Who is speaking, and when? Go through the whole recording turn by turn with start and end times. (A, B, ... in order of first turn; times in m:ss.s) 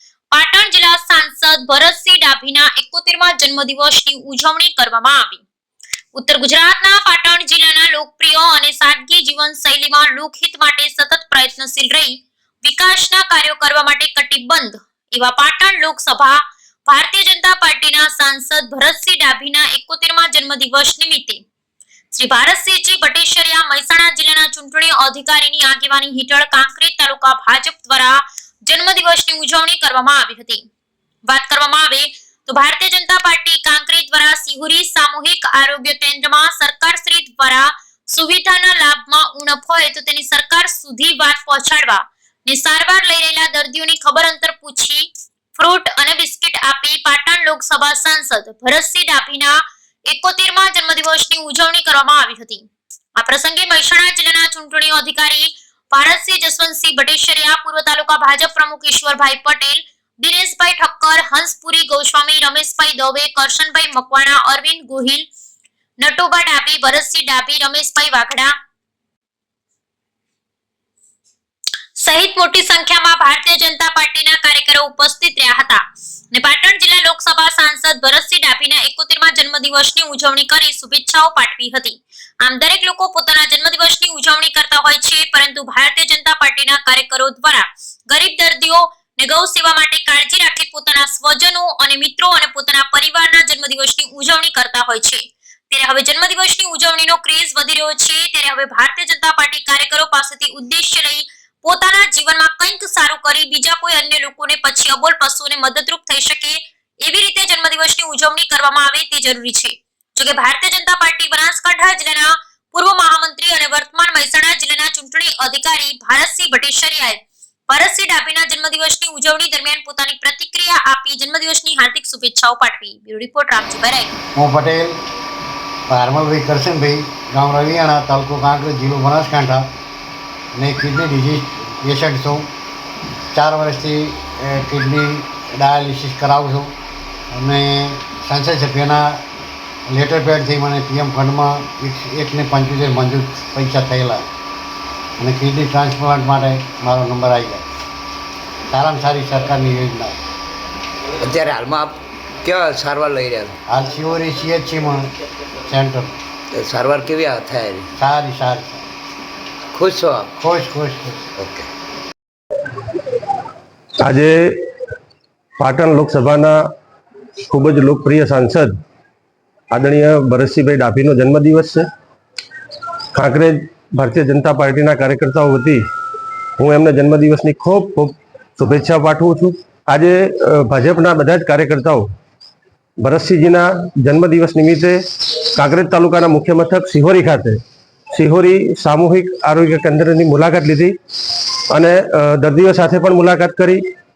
0:00.3-0:05.4 A
0:06.1-0:21.4 A
0:22.1-0:30.6 A
0:31.3-1:05.2 A
1:06.0-1:08.5 A
1:12.0-2:04.2 A
2:04.4-2:05.0 B
2:05.9-2:09.7 B
2:10.6-2:12.5 B
2:13.3-2:16.7 B
2:17.3-2:19.2 B
2:19.9-2:24.2 B
2:25.2-2:27.7 B
2:28.7-2:30.2 B
2:31.2-2:33.6 C
2:33.7-2:35.1 B
2:35.6-2:36.1 B
2:36.5-2:37.9 C
2:38.0-2:38.9 B
2:39.7-2:40.3 C
2:40.4-2:41.3 B
2:41.4-2:41.7 C
2:44.0-2:44.6 D
2:45.6-2:46.6 D
2:47.5-2:48.8 D
2:49.7-2:51.9 D
2:53.1-2:55.8 D
2:56.6-3:02.1 D
3:03.0-3:07.6 D
3:08.1-3:11.0 D
3:11.7-3:13.8 D